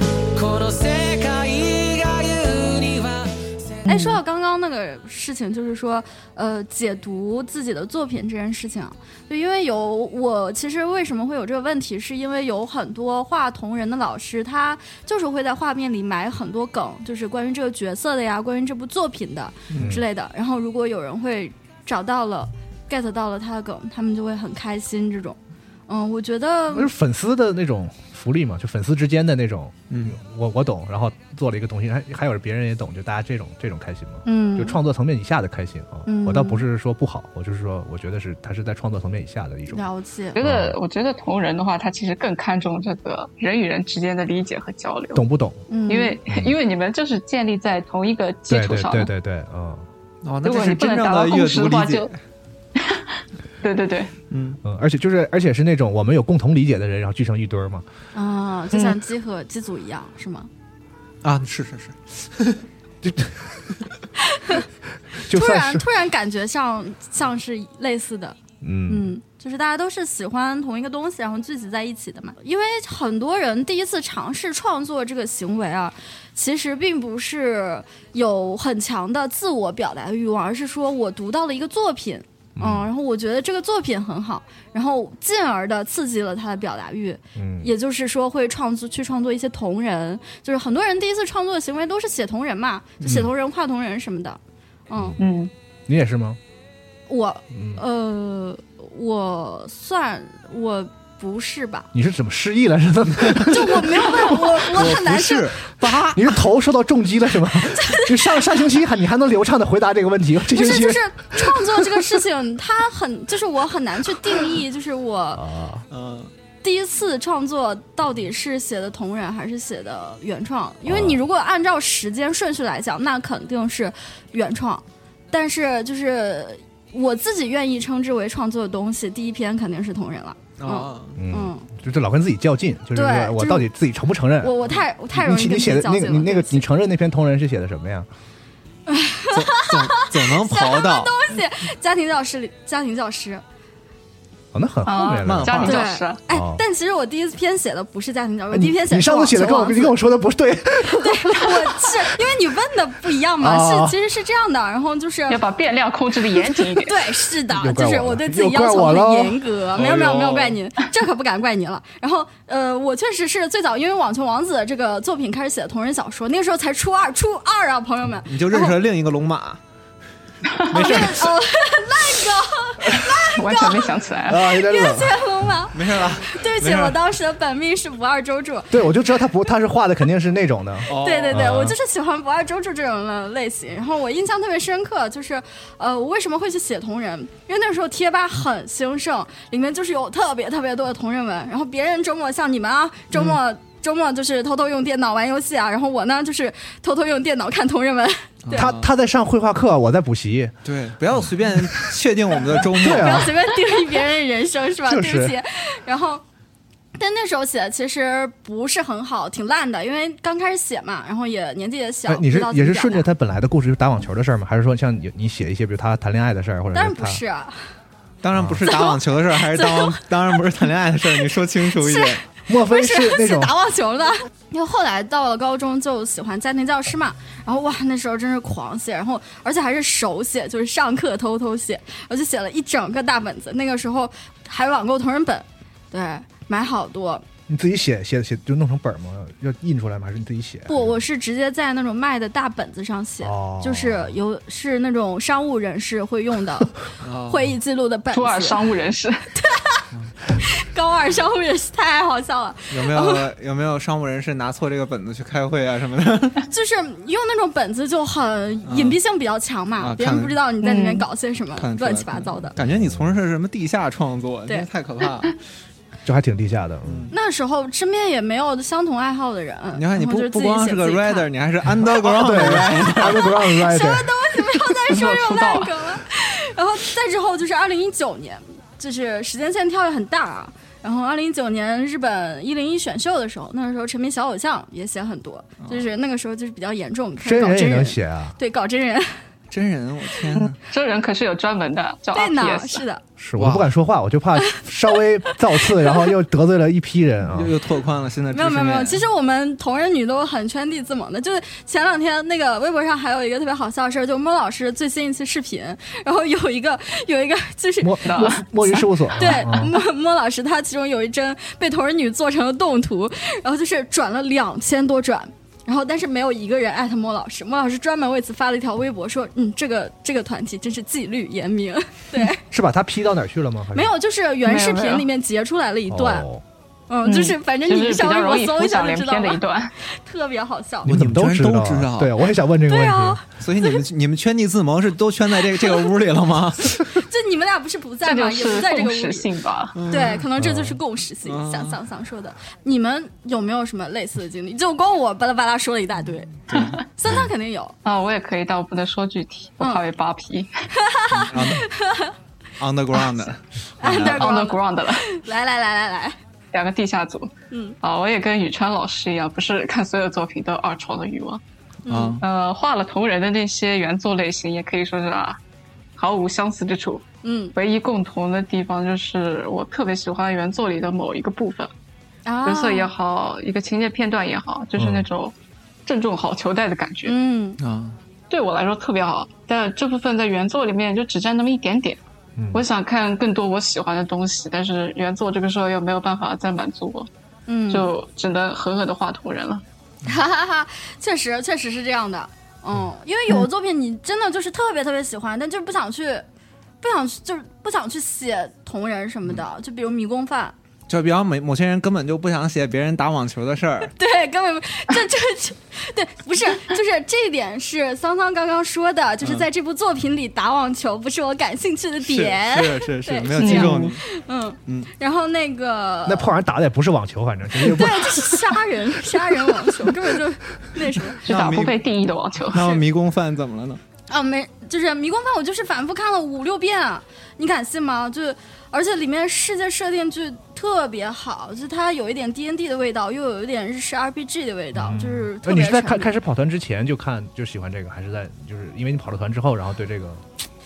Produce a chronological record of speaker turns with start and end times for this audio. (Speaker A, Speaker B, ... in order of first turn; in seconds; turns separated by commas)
Speaker A: 0.3-3.9, Speaker B: 3.9-26.9, Speaker C: 19.7-20.0, Speaker D: 19.8-20.0, Speaker D: 26.7-39.9, Speaker C: 29.9-30.2, Speaker B: 34.3-34.8, Speaker B: 36.1-36.6, Speaker B: 39.7-40.4, Speaker E: 40.4-45.2, Speaker D: 40.4-40.8, Speaker D: 45.1-45.6, Speaker B: 45.7-46.2, Speaker E: 45.9-49.1, Speaker D: 46.3-46.6, Speaker D: 48.5-49.9, Speaker C: 50.2-52.1, Speaker E: 50.4-52.1, Speaker E: 52.8-54.1, Speaker C: 54.3-54.6, Speaker D: 54.6-57.9, Speaker B: 58.1-60.5, Speaker C: 61.2-62.6, Speaker D: 63.0-63.6, Speaker B: 64.3-64.6, Speaker D: 65.1-65.9, Speaker B: 65.3-94.4, Speaker D: 68.6-69.1, Speaker D: 82.6-82.9, Speaker D: 87.4-87.7, Speaker D: 93.0-93.3, Speaker B: 94.9-95.2, Speaker D: 94.9-95.2, Speaker E: 95.2-95.5, Speaker D: 95.9-96.4, Speaker B: 97.1-101.9, Speaker D: 97.5-97.8, Speaker D: 101.9-104.4, Speaker C: 103.2-103.5, Speaker B: 103.5-105.7, Speaker C: 104.6-106.4, Speaker D: 106.1-112.2, Speaker B: 107.7-108.4, Speaker B: 110.5-115.4, Speaker D: 115.3-115.9, Speaker C: 115.9-116.3, Speaker B: 116.6-131.7, Speaker D: 120.9-121.2, Speaker C: 130.6-131.2, Speaker D: 131.2-134.6, Speaker B: 132.9-133.7, Speaker B: 134.4-136.7, Speaker D: 135.1-138.1, Speaker B: 138.9-143.4, Speaker C: 139.3-141.2, Speaker D: 144.5-145.7, Speaker E: 144.8-146.2, Speaker C: 145.2-145.8, Speaker B: 145.7-149.9, Speaker D: 146.3-146.6, Speaker D: 148.5-151.6, Speaker B: 151.0-155.4, Speaker D: 153.4-154.0, Speaker E: 155.3-157.1, Speaker B: 156.6-168.8, Speaker D: 157.5-159.4, Speaker C: 159.8-160.6, Speaker C: 168.3-169.6, Speaker C: 170.7-171.4, Speaker B: 170.7-178.9, Speaker E: 173.3-174.5, Speaker D: 174.3-175.2, Speaker C: 175.7-177.0, Speaker D: 178.7-181.8, Speaker C: 180.9-181.7, Speaker B: 180.9-198.7, Speaker C: 198.4-198.9, Speaker D: 198.6-200.6, Speaker C: 200.7-203.3, Speaker D: 202.6-203.3, Speaker B: 202.8-206.2, Speaker D: 204.8-205.4, Speaker B: 207.0-213.1, Speaker D: 212.1-217.2, Speaker B: 216.7-217.6, Speaker C: 218.2-222.2, Speaker D: 218.3-218.7, Speaker B: 218.7-220.1, Speaker B: 221.8-237.2, Speaker D: 222.5-223.6, Speaker D: 237.5-240.9, Speaker B: 240.7-246.7, Speaker D: 243.2-244.2, Speaker C: 247.0-247.6, Speaker B: 247.2-248.6, Speaker E: 248.1-249.3, Speaker B: 249.4-249.8, Speaker B: 250.4-253.3, Speaker C: 252.7-256.4, Speaker B: 256.5-262.6, Speaker C: 258.7-259.0, Speaker C: 259.8-260.4, Speaker E: 260.6-261.1, Speaker C: 261.6-265.4, Speaker D: 262.6-263.1, Speaker D: 266.1-267.1, Speaker C: 266.9-267.1, Speaker B: 267.1-271.3, Speaker C: 269.7-273.4, Speaker D: 272.0-274.1, Speaker B: 273.4-289.2, Speaker E: 274.9-275.8, Speaker D: 287.2-288.4, Speaker C: 289.5-290.6, Speaker E: 290.6-292.8, Speaker B: 292.1-293.0, Speaker D: 293.2-297.6, Speaker C: 293.4-293.7, Speaker C: 297.3-299.0, Speaker B: 298.3-308.2, Speaker D: 307.8-309.7, Speaker E: 308.1-308.5, Speaker B: 309.1-322.4, Speaker D: 322.5-323.9, Speaker B: 323.7-326.3, Speaker E: 324.4-325.1, Speaker D: 325.9-326.4, Speaker B: 326.9-330.9, Speaker E: 327.0-329.7, Speaker C: 330.9-332.1, Speaker D: 330.9-333.2, Speaker B: 332.7-333.8, Speaker C: 333.4-336.9, Speaker B: 335.6-335.8, Speaker B: 336.9-339.3, Speaker E: 338.0-339.8, Speaker C: 339.8-340.3, Speaker B: 339.9-347.8, Speaker D: 340.4-340.8, Speaker C: 341.2-341.8, Speaker C: 346.5-346.8, Speaker E: 347.9-350.5, Speaker B: 350.8-352.1, Speaker C: 351.1-351.7, Speaker C: 352.6-354.3, Speaker B: 353.8-356.2, Speaker E: 353.9-355.1, Speaker E: 356.5-361.4, Speaker B: 357.5-357.8, Speaker C: 361.9-362.2, Speaker B: 361.9-362.2, Speaker E: 362.2-365.4, Speaker E: 366.0-371.7, Speaker B: 367.2-367.5, Speaker B: 372.3-372.9, Speaker E: 372.4-375.3, Speaker D: 374.8-375.1, Speaker E: 375.9-377.2, Speaker B: 377.1-377.6, Speaker C: 377.6-378.0, Speaker E: 378.3-382.0, Speaker D: 382.4-382.6, Speaker E: 382.5-387.1, Speaker B: 387.5-387.9, Speaker E: 387.7-389.6, Speaker B: 390.1-396.2, Speaker B: 396.8-400.6, Speaker C: 400.9-403.9, Speaker B: 404.0-416.3, Speaker C: 409.2-409.5, Speaker C: 412.0-414.0, Speaker E: 413.4-413.9, Speaker D: 416.1-418.3, Speaker B: 417.6-421.2, Speaker E: 421.2-422.7, Speaker C: 421.3-421.9, Speaker C: 422.5-423.8, Speaker B: 424.1-436.1, Speaker D: 434.7-440.3